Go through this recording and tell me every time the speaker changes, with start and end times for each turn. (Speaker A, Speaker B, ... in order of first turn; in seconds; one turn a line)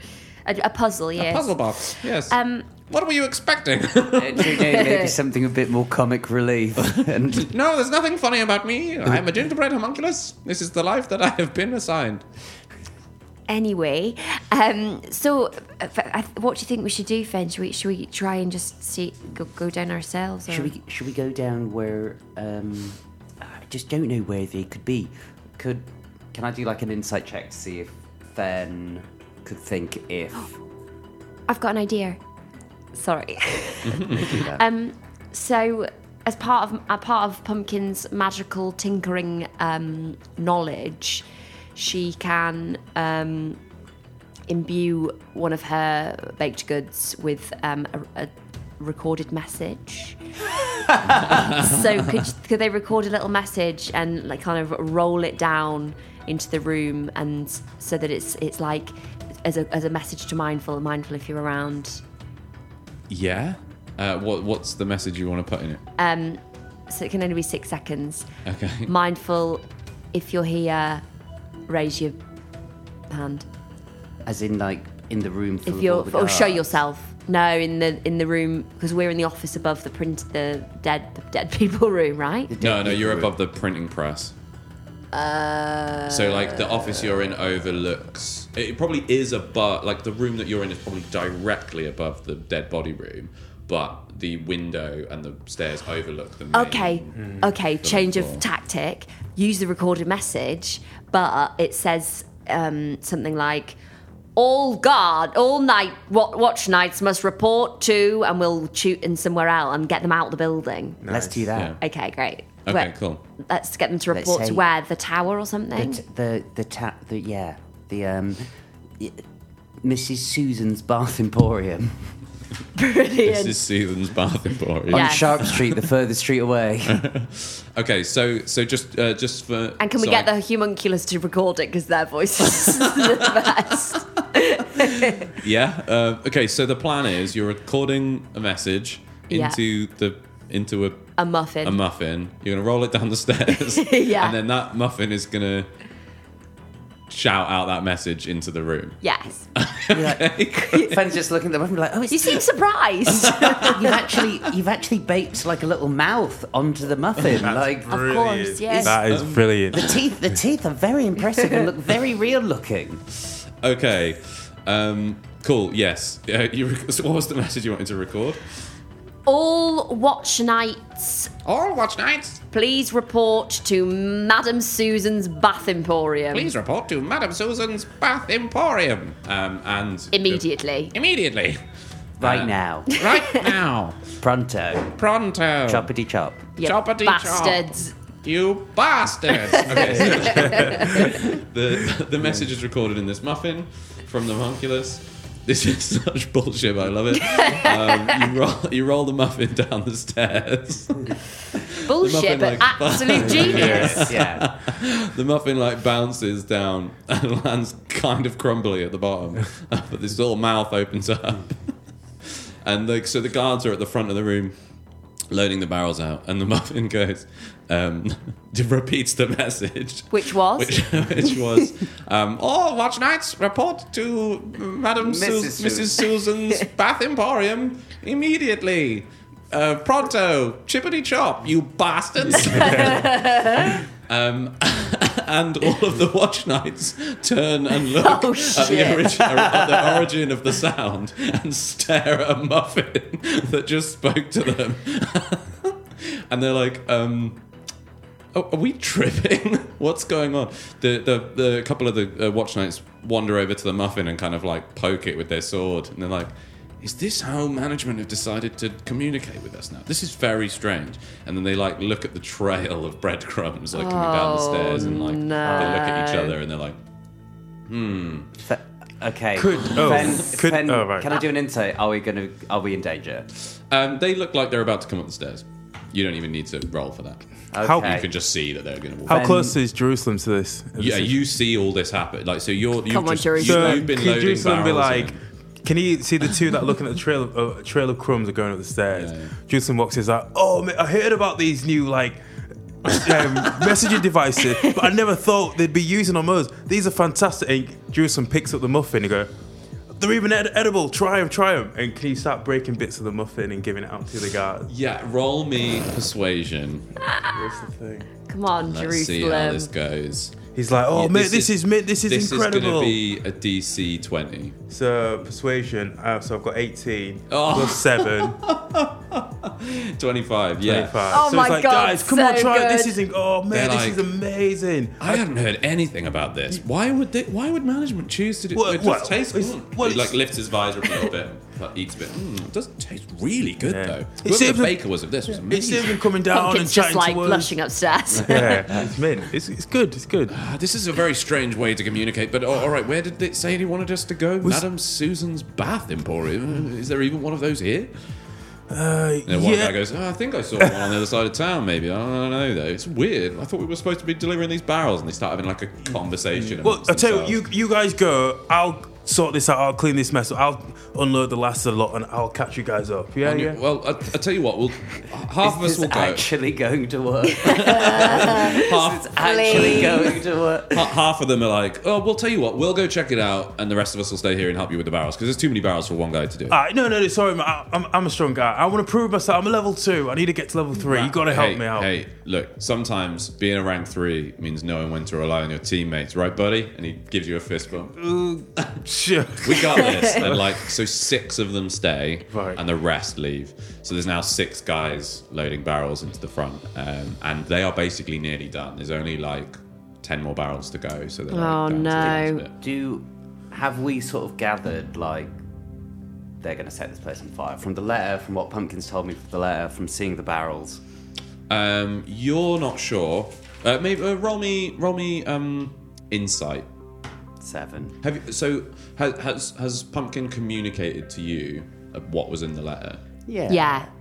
Speaker A: 0.5-2.7
Speaker B: 1.2-4.7
Speaker C: 4.2-7.5
Speaker A: 4.5-5.1
Speaker B: 7.0-12.2
Speaker A: 13.5-20.7
Speaker C: 20.5-30.6
Speaker A: 31.5-32.2
Speaker A: 32.9-43.6
Speaker B: 33.9-34.4
Speaker C: 34.1-34.6
Speaker A: 44.5-50.2
Speaker A: 50.8-62.0
Speaker B: 51.1-52.0
Speaker B: 63.1-65.8
Speaker A: 66.0-68.3
Speaker B: 68.5-68.9
Speaker A: 68.9-71.0
Speaker A: 71.7-72.2
Speaker A: 73.1-73.5
Speaker C: 74.3-76.8
Speaker A: 75.7-82.5
Speaker C: 82.5-83.3
Speaker B: 82.6-84.3
Speaker A: 85.1-86.8
Speaker B: 86.1-98.4
Speaker A: 96.5-103.8
Speaker D: 97.2-97.5
Speaker A: 104.4-111.0
Speaker D: 111.0-111.5
Speaker C: 111.1-111.8
Speaker B: 111.5-111.8
Speaker A: 111.8-116.0
Speaker B: 112.7-113.2
Speaker C: 114.1-114.7
Speaker C: 115.8-119.2
Speaker C: 119.8-122.2
Speaker A: 122.8-123.6
Speaker B: 123.2-125.8
Speaker C: 124.9-127.0
Speaker A: 124.9-125.3
Speaker B: 126.9-130.3
Speaker A: 129.8-135.3
Speaker B: 132.6-133.6
Speaker B: 134.8-145.7
Speaker A: 139.3-139.6
Speaker A: 141.2-141.8
Speaker A: 143.5-144.4
Speaker B: 147.1-149.0
Speaker A: 149.0-149.5
Speaker B: 149.6-150.9
Speaker C: 149.9-152.4
Speaker A: 150.6-150.9
Speaker A: 152.1-153.9
Speaker C: 153.1-158.1
Speaker B: 153.2-153.7
Speaker D: 157.3-160.0
Speaker A: 157.9-159.0
Speaker B: 158.9-160.0
Speaker C: 159.7-163.0
Speaker B: 163.6-168.7
Speaker A: 169.3-171.3
Speaker B: 171.4-172.4
Speaker A: 172.5-176.5
Speaker B: 176.3-181.6
Speaker A: 180.1-180.9
Speaker B: 182.2-184.1
Speaker C: 182.2-182.9
Speaker A: 182.9-183.5
Speaker C: 184.2-185.0
Speaker B: 185.0-185.9
Speaker C: 185.7-186.5
Speaker A: 186.6-187.9
Speaker B: 186.6-187.7
Speaker B: 188.2-214.6
Speaker A: 189.3-191.3
Speaker D: 190.0-191.1
Speaker A: 197.2-198.2
Speaker A: 201.7-204.1
Speaker C: 203.2-204.6
Speaker D: 203.5-204.0
Speaker B: 215.3-247.4
Speaker A: 220.1-220.8
Speaker C: 225.0-226.1
Speaker A: 232.5-233.8
Speaker D: 232.5-233.1
Speaker A: 237.9-239.2
Speaker C: 239.2-240.1
Speaker B: 248.3-266.8
Speaker A: 263.7-266.4
Speaker C: 265.4-265.9
Speaker B: 267.7-268.3
Speaker C: 268.4-273.3
Speaker D: 269.4-271.1
Speaker B: 273.7-279.4
Speaker C: 277.5-278.1
Speaker D: 277.6-278.0
Speaker D: 279.1-281.2
Speaker C: 279.1-279.6
Speaker B: 280.8-285.2
Speaker A: 282.9-283.9
Speaker D: 283.4-292.2
Speaker B: 288.9-289.3
Speaker D: 292.8-299.3
Speaker D: 299.9-304.7
Speaker B: 304.7-306.9
Speaker A: 307.1-307.4
Speaker D: 307.2-308.1
Speaker A: 308.2-309.7
Speaker B: 308.6-310.4
Speaker D: 310.6-313.0
Speaker B: 310.9-314.6
Speaker D: 314.7-318.4
Speaker B: 317.3-321.2
Speaker D: 320.6-325.2
Speaker A: 321.1-323.0
Speaker B: 323.5-324.1
Speaker B: 325.0-336.1
Speaker D: 328.5-330.2
Speaker D: 333.6-337.6
Speaker A: 336.3-338.7
Speaker D: 338.1-340.4
Speaker B: 340.3-347.9
Speaker D: 348.7-349.8
Speaker B: 349.3-357.4
Speaker D: 350.6-351.0
Speaker D: 356.4-363.6
Speaker B: 363.2-366.3
Speaker C: 365.4-370.9
Speaker A: 367.4-370.1
Speaker B: 367.4-376.6
Speaker D: 376.5-381.9
Speaker B: 380.8-388.8
Speaker D: 388.0-390.5
Speaker B: 389.4-402.5
Speaker D: 392.3-392.6
Speaker A: 401.3-402.4
Speaker C: 402.6-405.4
Speaker C: 406.4-410.8
Speaker B: 411.5-416.7
Speaker C: 417.4-418.0
Speaker B: 418.0-423.0
Speaker C: 423.3-423.9
Speaker A: 423.5-423.9